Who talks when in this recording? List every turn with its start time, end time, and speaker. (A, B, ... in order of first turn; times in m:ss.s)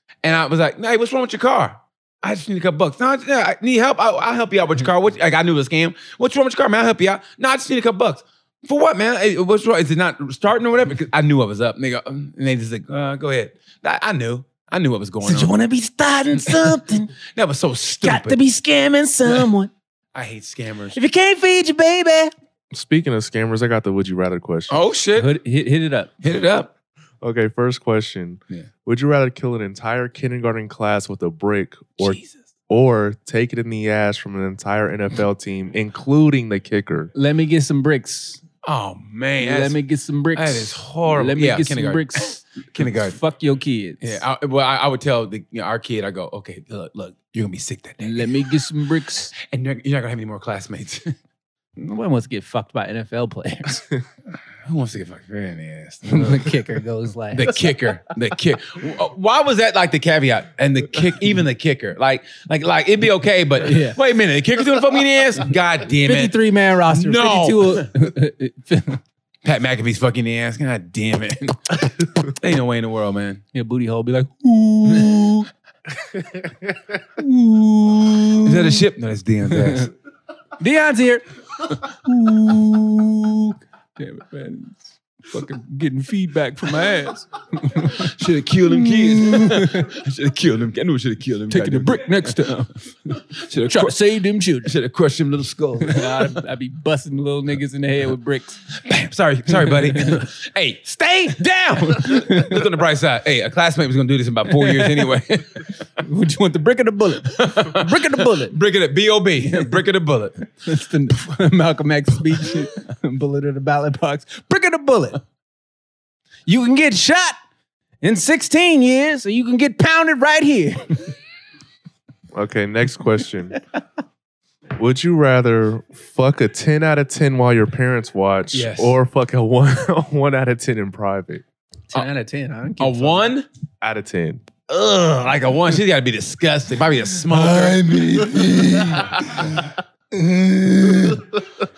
0:00.2-0:15.5 A
0:15.2-0:17.1 B
0:16.4-0:16.8 A
0:17.3-0:18.4 A
0:18.0-0:19.7 B
0:20.1-0:21.0 A
0:20.9-0:22.3 B
0:22.7-0:24.8 C
0:24.7-0:25.3 A
0:25.2-0:26.1 B
0:26.2-0:26.7 A
0:27.2-0:37.1 C
0:32.0-0:32.4 A
0:37.1-0:38.4 B
0:38.6-0:39.8 A
0:39.4-0:44.2 B
0:40.3-0:43.2 A
0:44.0-0:48.5 A
0:48.0-0:49.3 B
0:49.4-0:51.1 A
0:51.8-0:53.9 B
0:54.6-0:56.7 A
0:56.0-0:57.7 B
0:57.3-1:06.4 A
1:03.6-1:04.0 B
1:06.0-1:09.0 B
1:06.9-1:07.9 A
1:09.4-1:13.4 A
1:13.5-1:15.5 B
1:17.2-1:18.8 B
1:18.4-1:19.9 A
1:19.6-1:19.8 B
1:20.6-1:28.2 B
1:27.9-1:32.3 A
1:28.7-1:29.9 B
1:31.5-1:34.8 B
1:33.3-1:36.4 A
1:35.8-1:38.7 B
1:38.7-1:45.7 A
1:39.5-1:40.2 B
1:40.9-1:42.7 B
1:44.6-1:45.0 B
1:46.0-1:48.6 B
1:47.3-1:50.4 A
1:50.6-1:55.2 B
1:56.4-1:57.4 B
1:58.0-2:01.1 B
2:02.3-2:03.6 C
2:04.8-2:11.4 C
2:08.5-2:09.0 A
2:11.9-2:13.3 B
2:12.8-2:13.5 A
2:13.8-2:14.4 C
2:14.7-2:19.6 A
2:18.3-2:19.3 C
2:20.2-2:21.2 A
2:20.4-2:21.1 B